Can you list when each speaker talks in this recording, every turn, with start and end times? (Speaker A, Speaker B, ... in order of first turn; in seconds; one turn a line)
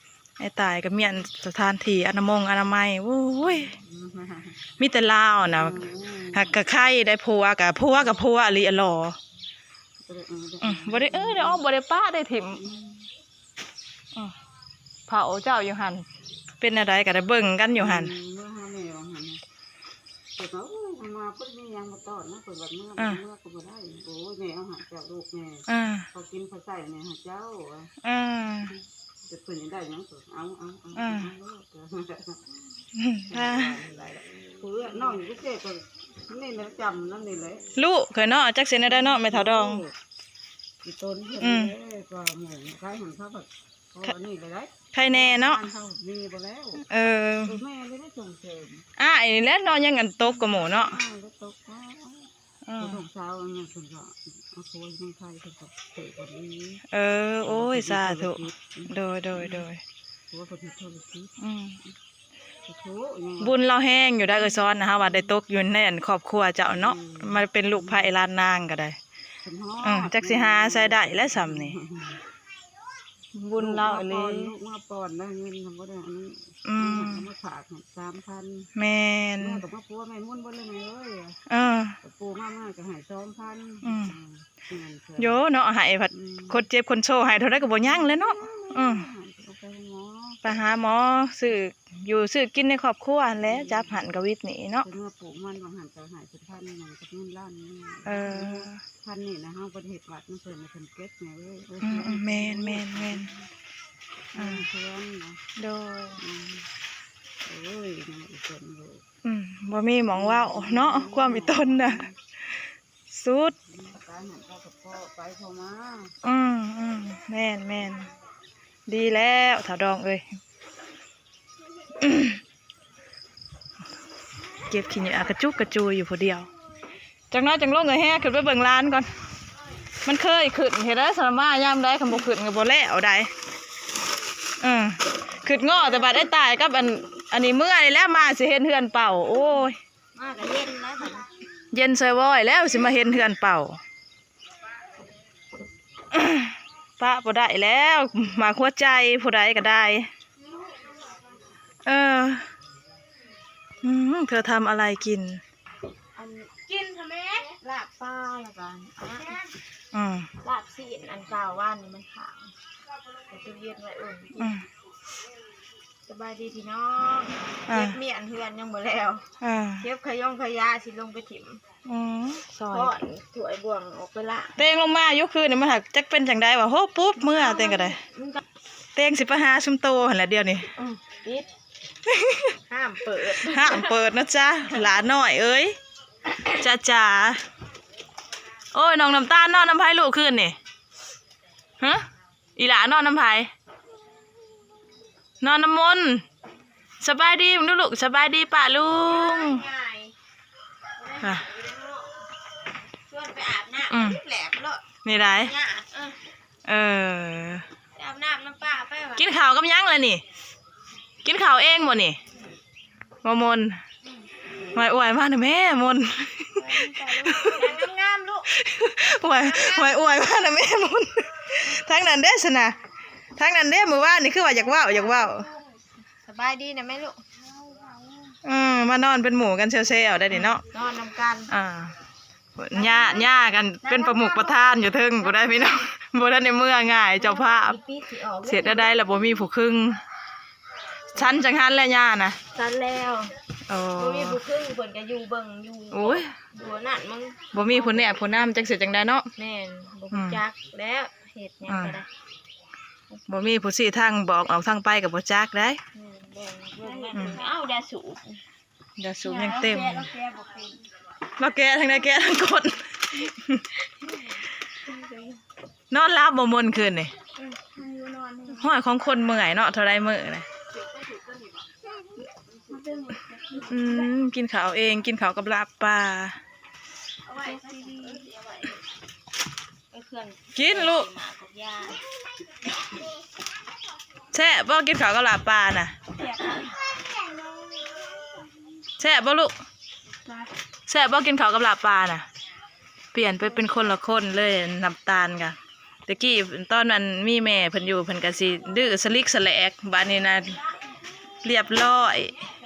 Speaker A: 0.4-3.8
Speaker B: 3.5-4.6
Speaker A: 4.8-9.2
Speaker B: 5.5-6.5
Speaker B: 10.0-11.6
Speaker A: 10.6-12.6
Speaker B: 12.6-13.0
Speaker A: 15.1-16.0
Speaker A: 16.6-18.1
Speaker B: 17.7-19.4
Speaker B: 20.4-27.9
Speaker A: 25.7-26.1
Speaker A: 28.0-28.7
Speaker B: 29.3-32.4
Speaker A: 30.9-31.3
Speaker A: 32.9-33.7
Speaker B: 33.3-37.7
Speaker A: 37.8-39.8
Speaker B: 38.8-39.9
Speaker B: 40.8-46.8
Speaker A: 41.4-41.7
Speaker A: 44.9-45.6
Speaker A: 46.9-47.6
Speaker B: 47.4-48.9
Speaker A: 49.0-51.0
Speaker B: 50.2-56.8
Speaker A: 52.6-53.0
Speaker A: 56.9-59.8
Speaker B: 57.4-59.6
Speaker B: 60.3-61.9
Speaker A: 61.4-61.8
Speaker B: 62.7-63.6
Speaker A: 63.4-69.0
Speaker B: 66.7-68.1
Speaker B: 69.4-72.2
Speaker A: 69.8-71.8
Speaker A: 73.3-74.5
Speaker B: 73.5-78.7
Speaker A: 76.6-77.2
Speaker A: 78.7-79.6
Speaker B: 79.4-81.4
Speaker A: 81.5-82.0
Speaker B: 82.0-85.4
Speaker A: 83.8-84.1
Speaker A: 85.2-89.0
Speaker B: 86.1-86.6
Speaker B: 87.7-90.4
Speaker A: 90.4-94.8
Speaker B: 93.4-94.0
Speaker B: 94.8-103.4
Speaker A: 98.0-98.8
Speaker A: 101.8-103.3
Speaker B: 104.3-105.4
Speaker A: 104.3-104.6
Speaker A: 105.6-106.2
Speaker B: 106.2-106.7
Speaker B: 107.4-109.0
Speaker A: 109.2-112.6
Speaker B: 110.1-112.1
Speaker A: 113.1-113.5
Speaker B: 113.6-116.1
Speaker A: 116.2-118.1
Speaker A: 118.9-120.4
Speaker A: 122.0-122.4
Speaker A: 124.7-126.5
Speaker A: 127.3-129.1
Speaker A: 130.0-133.3
Speaker A: 134.6-139.8
Speaker C: 140.1-141.3
Speaker A: 141.7-143.8
Speaker A: 146.1-150.1
Speaker C: 150.5-150.9
Speaker A: 151.8-152.5
Speaker A: 153.8-155.4
Speaker C: 156.2-159.5
Speaker A: 159.9-160.3
Speaker C: 160.4-162.5
Speaker C: 163.3-164.6
Speaker A: 164.4-164.6
Speaker C: 166.1-169.2
Speaker A: 167.7-168.0
Speaker A: 169.4-169.8
Speaker C: 169.8-171.6
Speaker A: 171.8-172.9
Speaker C: 172.7-174.6
Speaker A: 174.6-178.0
Speaker C: 177.2-178.4
Speaker A: 178.9-180.7
Speaker C: 180.8-181.5
Speaker A: 182.1-182.6
Speaker C: 182.7-184.0
Speaker A: 183.3-185.8
Speaker A: 186.4-187.4
Speaker A: 188.7-190.6
Speaker A: 191.8-193.5
Speaker A: 195.4-196.2
Speaker A: 197.0-199.6
Speaker C: 199.0-200.1
Speaker C: 201.0-202.2
Speaker A: 201.2-201.5
Speaker C: 203.1-206.2
Speaker A: 203.9-204.2
Speaker A: 205.0-205.5
Speaker A: 206.7-207.6
Speaker C: 207.9-209.3
Speaker A: 209.2-210.2
Speaker A: 211.2-212.2
Speaker A: 213.2-213.8
Speaker A: 214.7-217.8
Speaker C: 216.6-218.5
Speaker A: 218.5-222.8
Speaker C: 219.3-220.0
Speaker A: 223.3-225.5
Speaker C: 224.4-225.7
Speaker C: 226.2-228.3
Speaker A: 228.4-230.6
Speaker C: 230.6-231.5
Speaker A: 231.5-231.9
Speaker A: 232.6-237.8
Speaker C: 232.7-235.8
Speaker C: 237.2-239.2
Speaker A: 238.4-240.0
Speaker A: 241.1-242.4
Speaker C: 242.5-243.3
Speaker A: 243.7-244.4
Speaker C: 243.9-248.6
Speaker A: 245.9-246.3
Speaker A: 247.5-249.3
Speaker C: 249.4-252.1
Speaker A: 250.1-250.4
Speaker A: 251.7-252.0
Speaker A: 253.3-255.8
Speaker C: 255.9-258.4
Speaker B: 256.9-257.5
Speaker A: 257.1-257.4
Speaker A: 259.0-260.1
Speaker C: 259.2-260.8
Speaker A: 261.4-263.6
Speaker C: 263.9-265.4
Speaker A: 265.9-267.1
Speaker C: 267.4-268.6
Speaker A: 268.5-270.5
Speaker C: 270.7-274.1
Speaker A: 273.6-276.4
Speaker C: 277.2-278.8
Speaker C: 279.9-282.0
Speaker A: 280.5-281.1
Speaker A: 284.3-285.9
Speaker C: 286.2-288.4
Speaker A: 289.0-289.5
Speaker A: 290.9-292.2
Speaker A: 293.1-300.6
Speaker A: 301.4-302.4